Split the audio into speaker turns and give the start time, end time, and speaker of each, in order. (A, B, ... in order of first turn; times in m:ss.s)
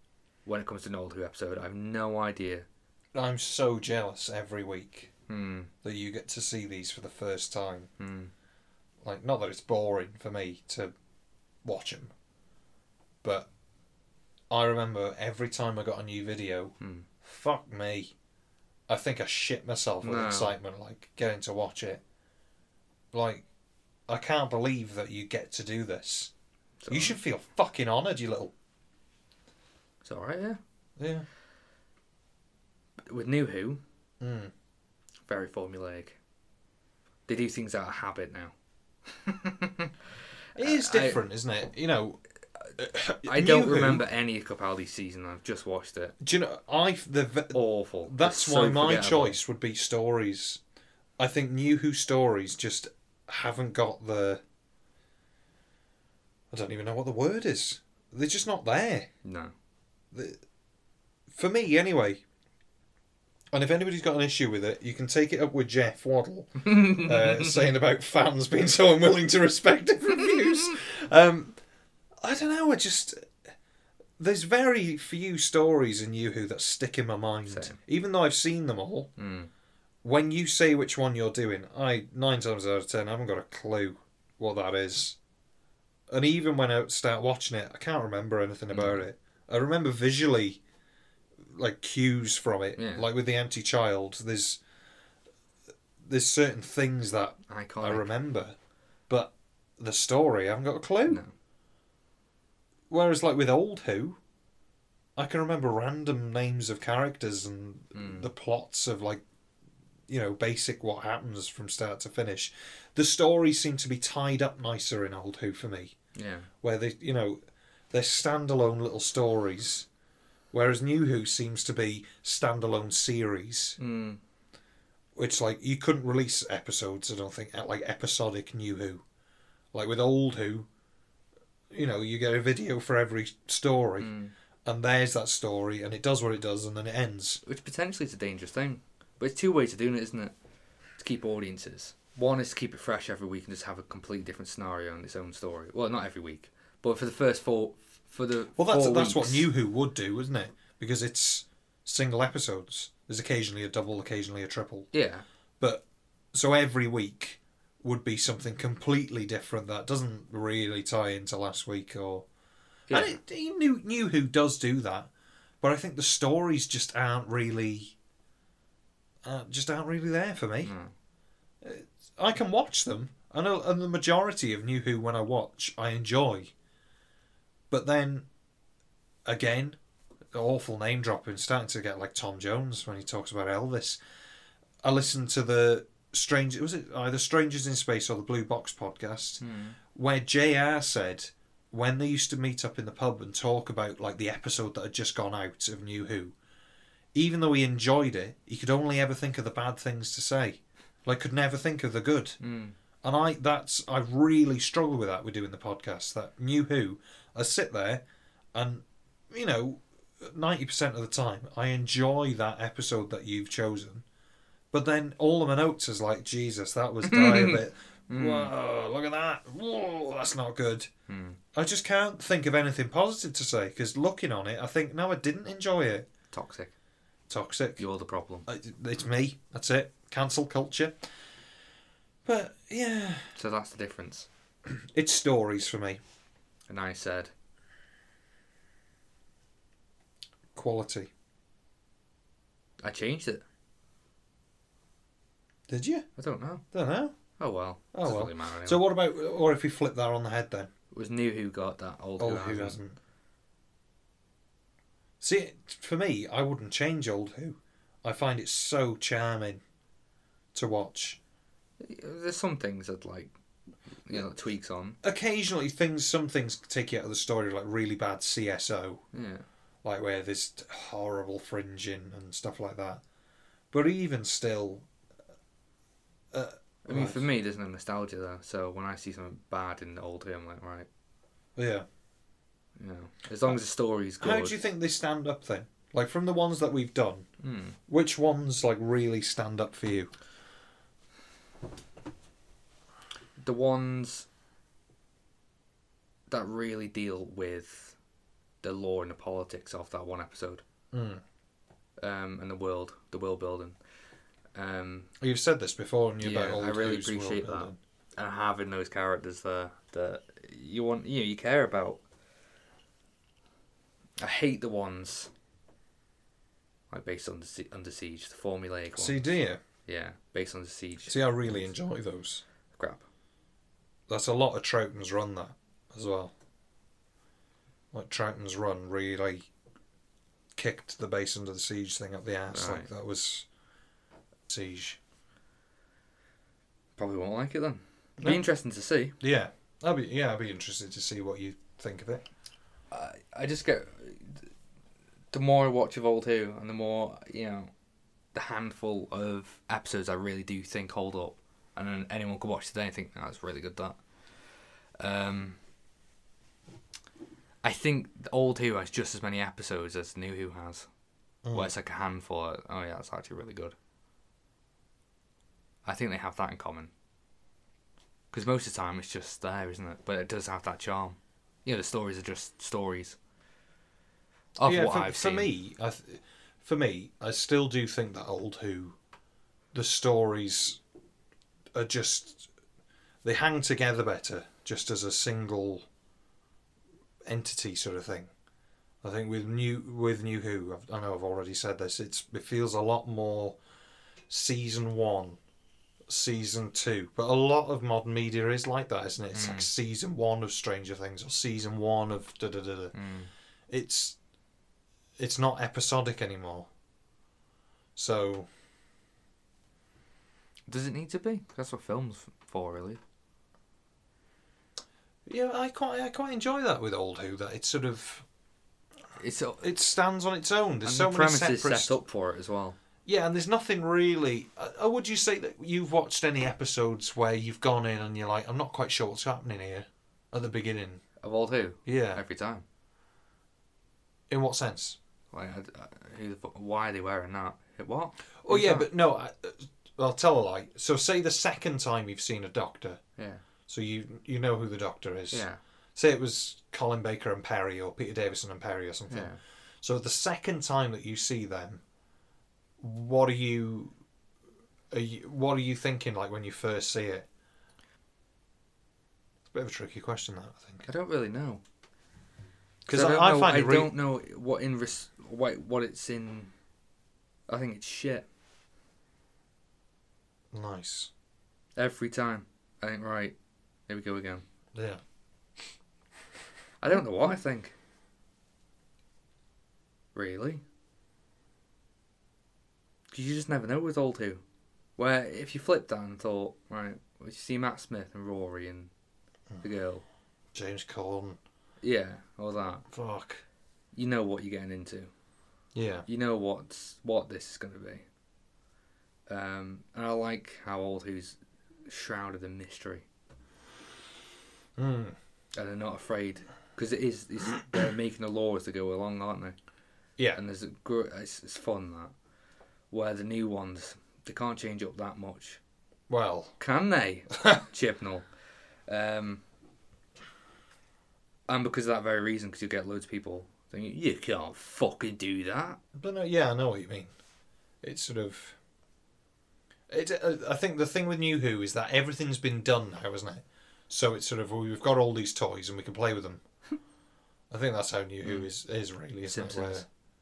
0:00.4-0:02.7 A
0:03.1-0:05.1 B
0:05.3-0:05.7 A
0:05.8-0:07.9 B
0:08.0-0:08.3 A
0:09.0-0:10.9 B
0:11.6-0:12.1 B
0:13.2-0:13.5 B
0:14.5-0:18.1 B
0:16.8-0:17.1 A
0:18.9-0:22.0 B
0:20.0-0:20.6 A
0:23.1-0:23.4 B
0:24.1-0:26.3 B
0:26.8-0:27.2 A
0:26.9-0:28.5 B
0:30.0-0:30.6 A
0:31.0-0:31.3 B
0:33.1-0:33.8 A
0:34.2-0:34.5 B
0:35.3-0:36.2 A
0:37.3-0:38.5 A
0:39.1-0:39.9 A
0:40.6-0:41.2 A
0:40.6-0:42.2 B
0:42.8-0:44.0 B
0:43.2-0:46.2 A
0:46.2-0:50.6 B
0:47.5-0:49.4 A
0:51.2-0:54.4 B
0:56.5-0:59.1 B
0:59.2-0:59.5 A
1:00.1-1:00.4 B
1:01.3-1:02.2 B
1:03.5-1:11.6 B
1:06.6-1:07.6 A
1:12.2-1:13.4 B
1:14.2-1:19.1 B
1:17.5-1:17.8 A
1:19.2-1:19.5 A
1:20.0-1:25.2 B
1:26.1-1:30.6 B
1:28.7-1:29.1 A
1:31.5-1:34.6 B
1:32.8-1:33.1 A
1:36.0-1:38.6 B
1:37.5-1:38.1 A
1:39.1-1:41.2 B
1:41.1-1:41.3 A
1:42.9-1:44.2 B
1:45.2-1:49.2 B
1:47.9-1:48.3 A
1:50.1-1:56.0 B
1:56.2-1:56.5 A
1:56.6-1:57.4 B
1:57.9-1:59.9 B
2:00.5-2:03.8 B
2:03.8-2:04.2 A
2:05.2-2:09.0 B
2:09.7-2:10.7 B
2:11.7-2:14.1 B
2:14.0-2:14.3 A
2:14.6-2:17.4 B
2:17.4-2:20.3 A
2:21.0-2:29.5 A
2:28.6-2:34.9 B
2:34.9-2:35.2 A
2:35.6-2:42.3 B
2:42.9-2:43.2 A
2:42.9-2:45.1 B
2:45.6-2:48.0 B
2:49.2-2:50.7 B
2:50.6-2:50.9 A
2:51.6-2:56.5 B
2:57.7-2:58.3 B
2:59.2-2:59.8 B
3:00.3-3:04.0 B
3:04.8-3:16.3 B
3:09.4-3:09.8 A
3:17.1-3:22.4 B
3:22.4-3:22.8 A
3:23.0-3:28.0 B
3:28.5-3:34.0 B
3:34.7-3:40.9 B
3:37.0-3:38.5 A
3:41.1-3:41.4 A
3:41.5-3:46.1 B
3:46.3-3:46.7 A
3:47.3-3:47.8 B
3:47.8-3:48.5 A
3:48.5-3:51.0 B
3:52.2-3:53.3 B
3:53.4-3:54.3 A
3:54.7-3:56.0 B
3:56.7-3:57.3 A
4:00.6-4:01.1 B
4:02.8-4:03.4 A
4:05.7-4:06.1 B
4:06.2-4:06.6 A
4:06.7-4:07.2 B
4:07.4-4:08.8 A
4:07.9-4:10.7 B
4:10.9-4:12.8 A
4:12.2-4:13.0 B
4:15.2-4:19.6 B
4:20.5-4:21.2 B
4:21.8-4:23.3 A
4:23.9-4:25.0 A
4:25.0-4:29.0 B
4:29.1-4:29.4 A
4:29.8-4:33.0 B
4:33.7-4:34.9 B
4:36.3-4:37.2 B
4:36.9-4:40.9 A
4:41.6-4:41.9 B
4:42.8-4:44.6 A
4:44.2-4:47.3 B
4:47.4-4:47.8 A
4:47.9-4:50.1 B
4:53.4-4:54.3 A
4:56.3-4:58.0 A
4:58.6-5:00.6 A
5:00.9-5:01.2 B
5:02.0-5:03.8 A
5:04.5-5:05.1 A
5:05.2-5:07.8 B
5:06.2-5:12.0 A
5:14.2-5:15.3 A
5:16.9-5:19.2 A
5:19.0-5:19.6 B
5:19.9-5:21.7 A
5:21.1-5:22.4 B
5:22.7-5:23.0 A
5:24.1-5:26.3 B
5:27.9-5:29.5 B
5:30.6-5:33.5 B
5:32.5-5:32.9 A
5:34.5-5:35.0 B
5:37.0-5:39.2 A
5:38.2-5:38.4 B
5:39.2-5:42.2 B
5:42.9-5:44.5 A
5:45.3-5:47.7 A
5:48.3-5:54.0 A
5:55.0-5:55.6 A
5:57.6-6:00.9 A
6:01.4-6:01.7 B
6:01.5-6:03.8 A
6:05.8-6:06.9 A
6:08.3-6:13.2 A
6:14.6-6:15.5 A
6:14.6-6:19.0 B
6:19.7-6:20.8 B
6:21.7-6:22.5 B
6:23.2-6:25.9 B
6:27.2-6:28.3 B
6:29.0-6:33.6 B
6:34.3-6:35.4 B
6:36.1-6:42.9 B
6:39.3-6:39.7 A
6:42.9-6:43.3 A
6:43.7-6:44.2 B
6:45.2-6:46.7 B
6:48.0-6:48.5 B
6:50.7-6:53.0 A
6:55.3-6:58.2 B
6:59.2-6:59.7 A
6:59.6-7:02.0 B
7:00.8-7:02.8 A
7:03.1-7:11.0 B
7:11.2-7:12.6 A
7:11.8-7:12.2 B
7:14.3-7:15.0 B
7:15.3-7:18.9 A
7:18.4-7:23.0 B
7:23.2-7:23.4 A
7:23.7-7:31.8 B
7:25.3-7:25.6 A
7:29.1-7:29.4 A
7:32.8-7:34.0 B
7:34.9-7:37.3 B
7:39.5-7:40.9 B
7:40.9-7:41.6 A
7:42.9-7:43.9 B
7:42.9-7:46.5 A
7:47.5-7:48.3 A
7:50.5-7:51.1 B
7:51.8-7:53.4 A
7:53.9-7:54.4 A
7:54.7-7:55.0 B
7:56.8-7:57.8 A
8:00.2-8:00.6 A
8:03.1-8:04.4 A
8:05.0-8:08.9 A
8:09.6-8:10.0 A
8:10.5-8:11.4 B
8:11.8-8:12.8 A
8:12.9-8:13.4 B
8:13.9-8:15.1 A
8:15.7-8:16.1 B
8:16.1-8:18.0 A
8:19.3-8:23.1 A
8:24.8-8:25.2 B
8:25.6-8:29.6 A
8:30.3-8:32.1 A
8:32.9-8:35.6 A
8:36.1-8:36.6 B
8:36.6-8:38.3 A
8:38.9-8:39.4 A
8:41.5-8:45.8 A
8:45.9-8:47.1 B
8:47.8-8:48.6 B
8:49.9-8:56.4 B
8:57.5-8:59.9 B
8:58.2-8:58.5 A
8:59.3-8:59.9 A